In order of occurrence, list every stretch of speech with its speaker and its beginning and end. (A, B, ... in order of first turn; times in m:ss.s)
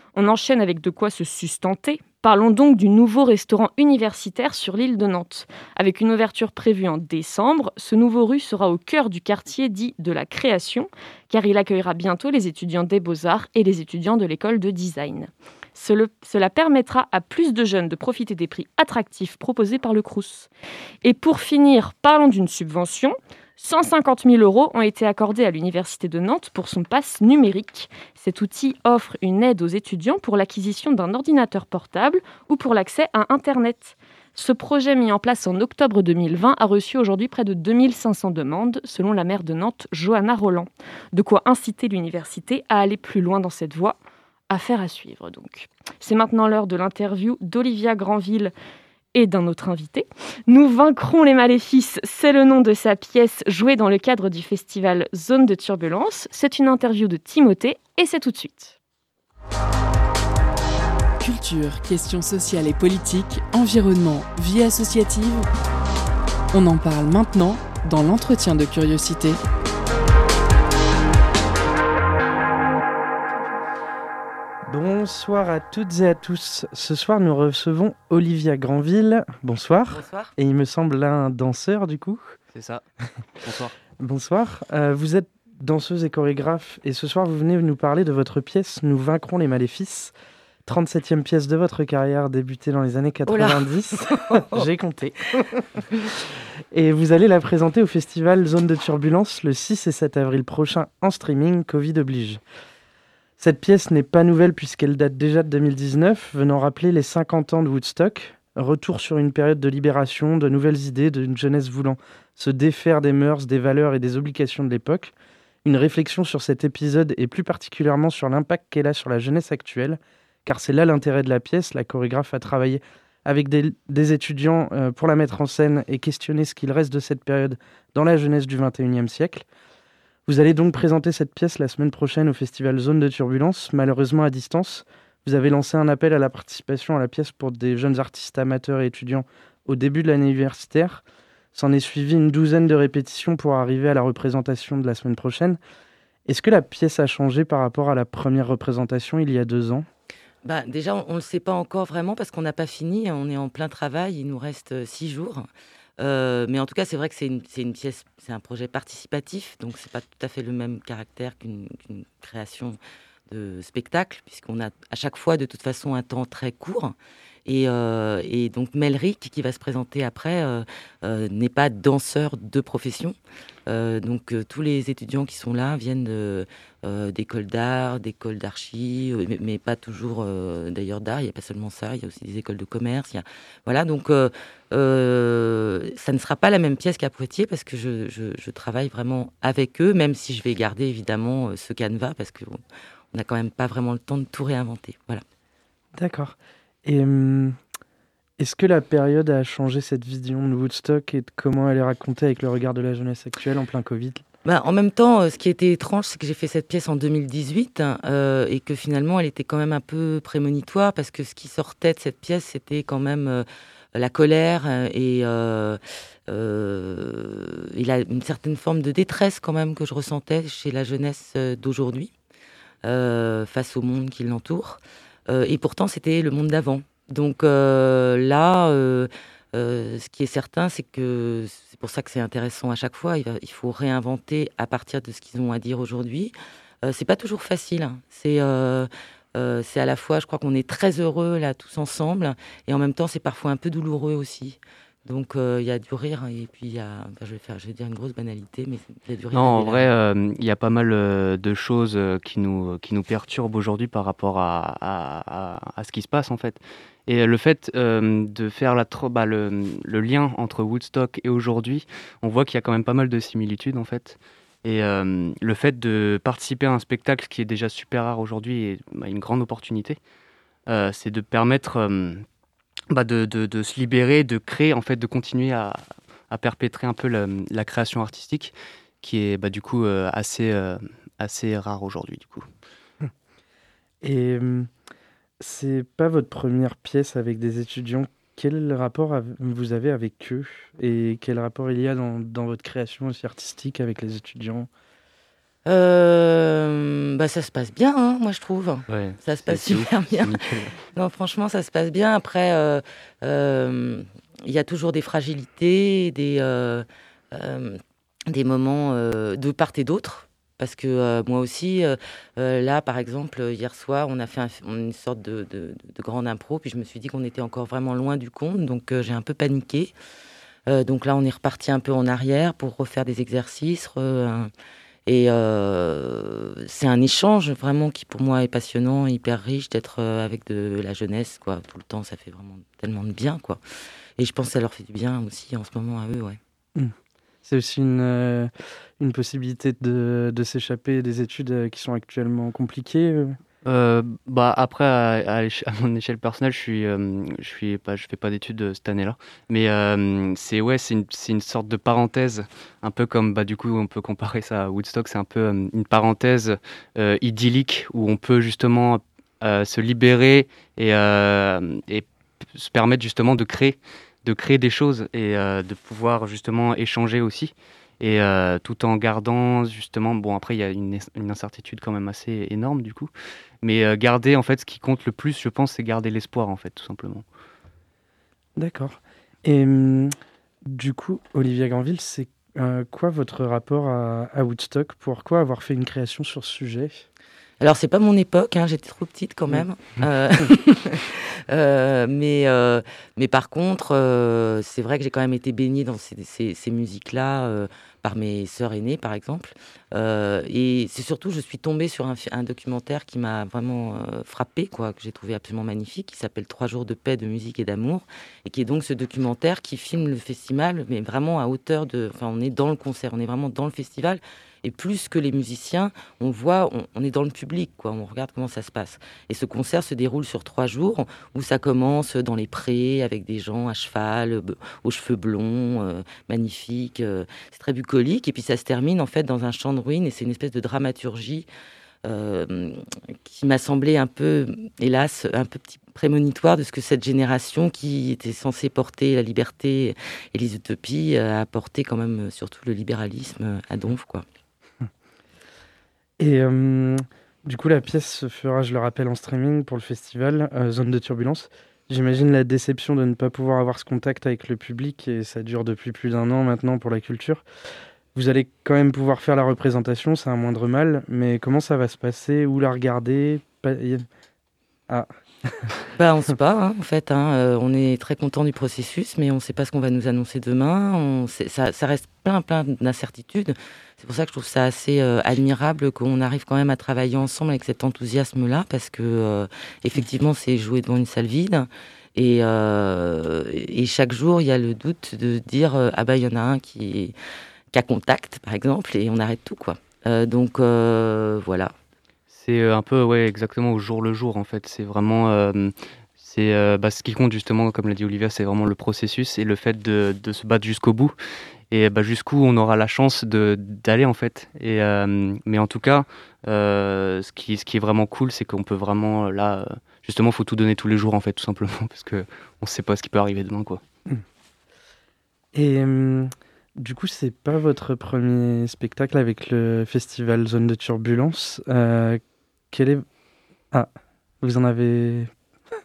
0:00.1-0:20.5 A
0:21.0-0:44.0 A
0:44.5-0:48.5 A
0:49.1-0:58.8 A
1:01.2-1:05.5 B
1:06.5-1:09.4 B
1:14.7-1:22.4 C
1:19.9-1:20.3 D
1:22.5-1:22.8 E
1:23.4-1:23.7 E
1:24.0-1:30.1 C
1:30.6-1:35.3 C
1:33.3-1:34.7 D
1:36.7-1:42.4 C
1:43.4-1:55.1 C
1:55.6-2:09.4 C
2:10.3-2:21.0 C
2:21.5-2:25.6 C
2:26.2-2:29.8 C
2:30.4-2:35.5 D
2:36.0-2:42.8 D
2:43.3-3:12.6 D
3:13.1-3:15.2 D
3:15.9-3:17.6 C
3:18.4-3:24.2 C
3:24.4-3:42.1 D
3:42.8-4:09.9 D
4:09.3-4:30.0 E
4:30.7-4:32.2 E
4:32.9-4:42.5 E
4:44.0-4:44.7 C
4:45.4-4:54.7 C
4:55.6-5:19.9 D
4:58.9-5:00.7 E
5:20.7-5:24.5 D
5:25.0-5:33.6 D
5:34.2-5:36.4 D
5:36.7-5:43.4 C
5:43.6-6:13.1 E
6:13.6-6:17.2 E
6:18.6-6:20.1 C
6:20.6-6:27.0 C
6:27.6-7:11.5 D
7:12.0-7:24.2 D
7:26.2-7:37.4 C
7:38.1-7:44.0 C
7:44.9-7:45.6 C
7:46.0-8:07.1 D
8:07.7-8:11.7 D
8:12.3-8:21.1 E
8:21.7-8:33.8 E
8:35.5-8:43.0 C
8:44.4-8:45.3 C